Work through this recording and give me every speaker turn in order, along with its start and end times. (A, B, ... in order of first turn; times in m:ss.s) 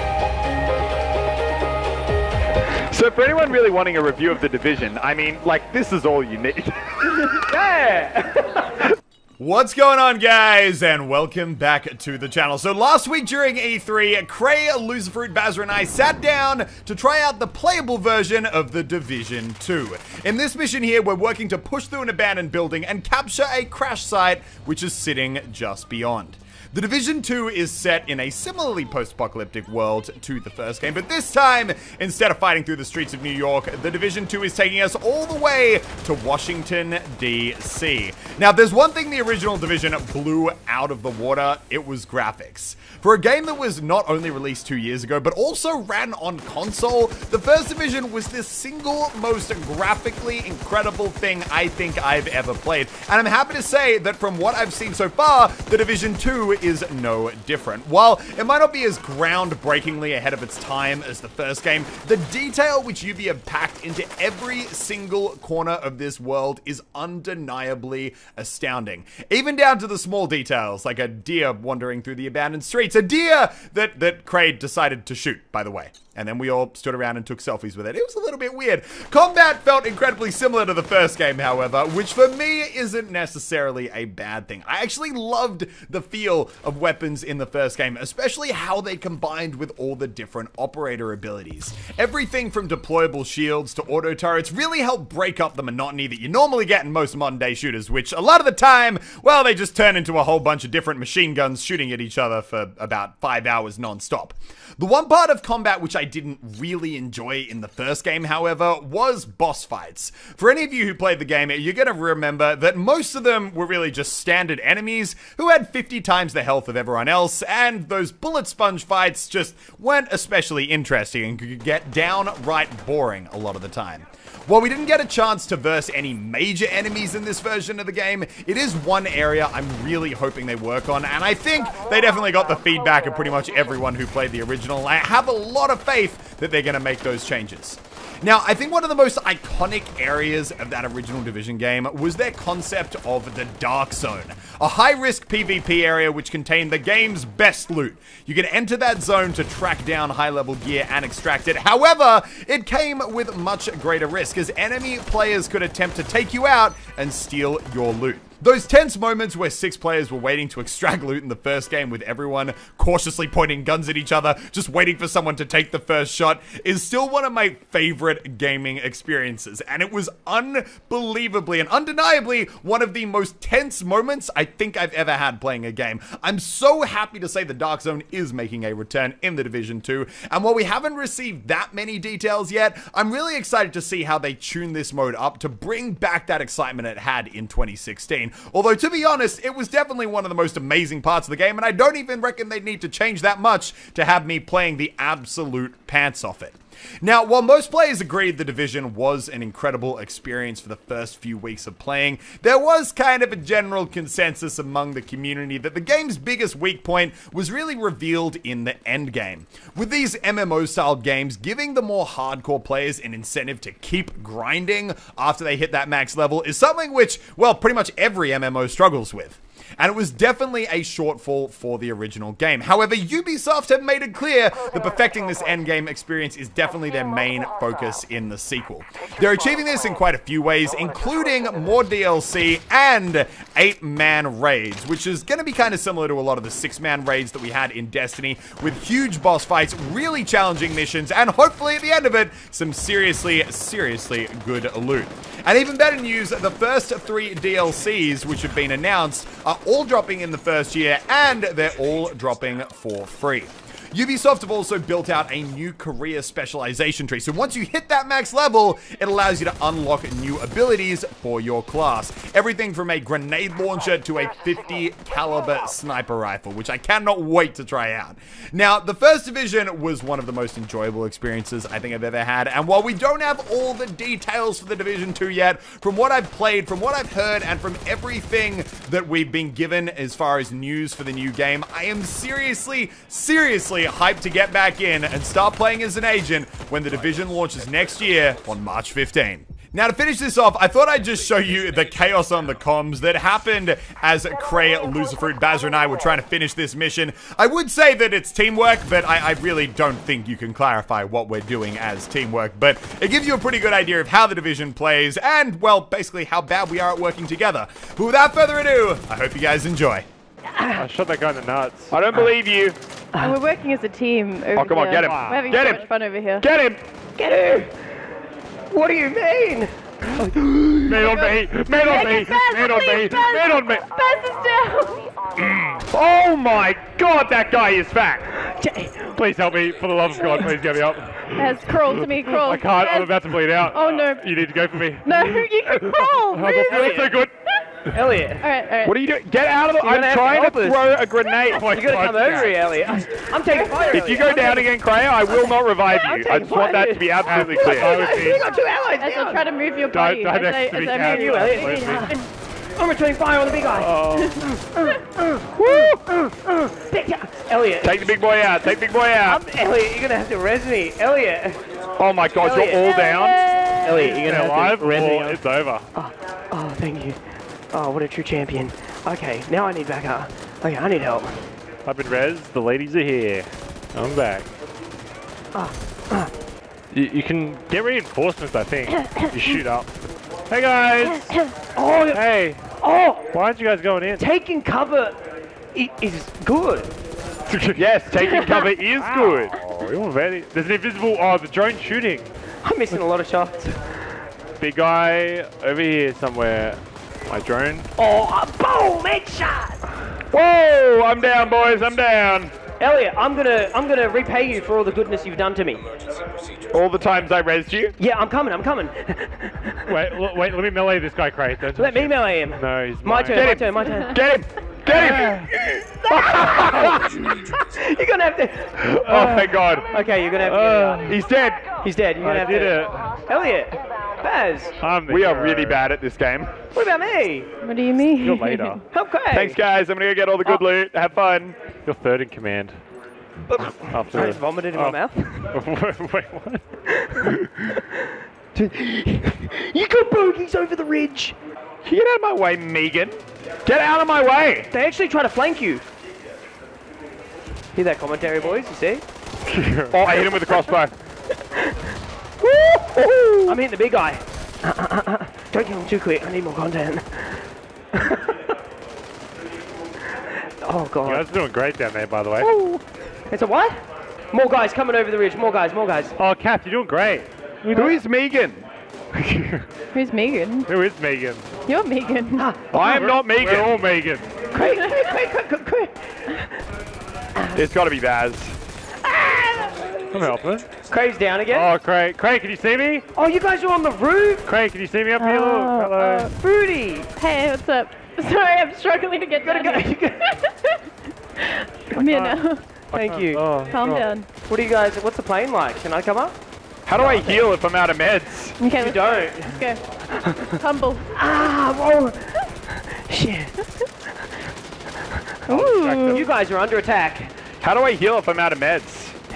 0:02.9-0:06.6 A
0:03.2-0:03.7 B
0:04.5-0:06.6 B
0:07.3-0:08.7 C
0:09.4-5:10.1 B
5:10.6-5:10.8 C
5:10.8-5:12.0 D
5:11.9-5:12.8 A
5:13.1-5:13.4 C
5:13.2-5:16.5 E
5:14.5-5:16.8 A
5:15.0-5:15.6 D
5:17.2-5:17.7 C
5:18.7-5:21.2 C
5:20.9-5:23.8 D
5:21.0-5:25.2 E
5:21.8-5:23.8 A
5:21.8-5:23.6 C
5:25.4-5:28.3 D
5:26.0-5:26.7 A
5:28.4-5:29.2 C
5:29.1-5:37.4 D
5:31.3-5:34.4 E
5:35.0-5:37.6 E
5:36.7-5:37.1 C
5:37.9-5:38.5 C
5:38.4-5:39.0 E
5:38.8-5:41.7 A
5:39.8-5:40.9 C
5:41.5-5:42.8 D
5:41.6-5:49.5 C
5:43.5-5:44.1 E
5:43.9-5:48.3 A
5:47.2-5:48.4 D
5:49.0-5:52.2 E
5:49.9-5:52.1 D
5:51.0-5:52.2 C
5:52.8-5:58.1 C
5:53.8-5:54.4 D
5:54.1-5:54.4 E
5:55.6-5:56.2 A
5:57.8-5:59.4 A
5:59.2-6:01.6 C
6:02.0-6:05.4 A
6:02.4-6:02.9 C
6:02.8-6:03.9 E
6:03.8-6:04.2 C
6:03.9-6:05.9 D
6:06.0-6:07.2 C
6:07.7-6:11.4 C
6:11.8-6:14.5 D
6:15.5-6:16.3 C
6:16.9-6:19.9 D
6:20.5-6:21.4 D
6:21.6-6:22.2 C
6:22.1-6:22.6 D
6:22.8-6:23.3 C
6:23.3-6:24.2 D
6:24.2-6:25.2 C
6:25.7-6:26.9 C
6:27.5-6:32.3 D
6:27.8-6:29.5 A
6:32.6-6:33.9 C
6:34.6-6:37.9 D
6:38.0-6:39.8 C
6:40.3-6:42.5 A
6:42.8-6:45.8 C
6:46.7-6:48.0 A
6:48.0-6:49.9 C
6:49.9-6:53.6 D
6:51.8-6:54.2 C
6:53.3-6:55.4 A
6:54.9-6:59.0 C
6:54.9-6:55.5 D
6:56.1-6:57.2 A
6:58.9-6:59.9 A
6:59.0-6:59.7 D
6:59.7-7:04.8 C
7:00.4-7:01.2 D
7:01.1-7:01.7 A
7:02.2-7:03.0 D
7:04.8-7:05.9 D
7:05.1-7:06.6 A
7:06.7-7:07.5 C
7:07.6-7:08.8 E
7:08.2-7:08.8 D
7:08.9-7:09.6 C
7:09.3-7:11.6 A
7:11.8-7:12.8 D
7:13.5-7:15.5 C
7:13.9-7:16.6 D
7:16.9-7:21.4 C
7:21.8-7:24.7 A
7:24.7-7:25.8 C
7:27.7-7:29.0 C
7:29.5-7:30.0 D
7:29.9-7:31.0 A
7:32.4-7:33.6 A
7:33.4-7:38.5 C
7:40.6-7:41.3 C
7:41.0-7:42.5 D
7:42.4-7:42.8 A
7:43.3-7:43.8 C
7:44.3-7:46.2 C
7:46.2-7:48.0 D
7:47.7-7:48.6 A
7:49.2-7:49.6 D
7:49.9-7:50.7 E
7:50.7-7:51.5 D
7:51.6-7:52.5 E
7:52.4-7:52.7 C
7:52.7-7:53.8 A
7:52.7-7:54.3 D
7:54.5-7:56.5 C
7:54.7-7:55.1 E
7:57.4-7:57.6 C
7:57.6-7:58.6 A
7:59.0-8:00.0 C
8:00.1-8:00.7 D
8:00.9-8:01.7 C
8:01.5-8:03.1 D
8:03.2-8:04.5 C
8:04.5-8:06.3 D
8:05.2-8:06.3 E
8:06.3-8:07.1 C
8:07.1-8:12.7 E
8:09.4-8:10.3 C
8:12.0-8:14.1 D
8:12.9-8:13.5 C
8:13.6-8:14.3 E
8:14.4-8:16.4 C
8:16.9-8:18.6 A
8:16.9-8:17.6 C
8:18.6-8:19.8 E
8:18.8-8:20.6 C
8:20.4-8:21.1 E
8:21.1-8:23.6 C
8:25.5-8:26.2 E
8:25.5-8:26.3 D
8:26.1-8:27.3 C
8:27.6-8:29.2 A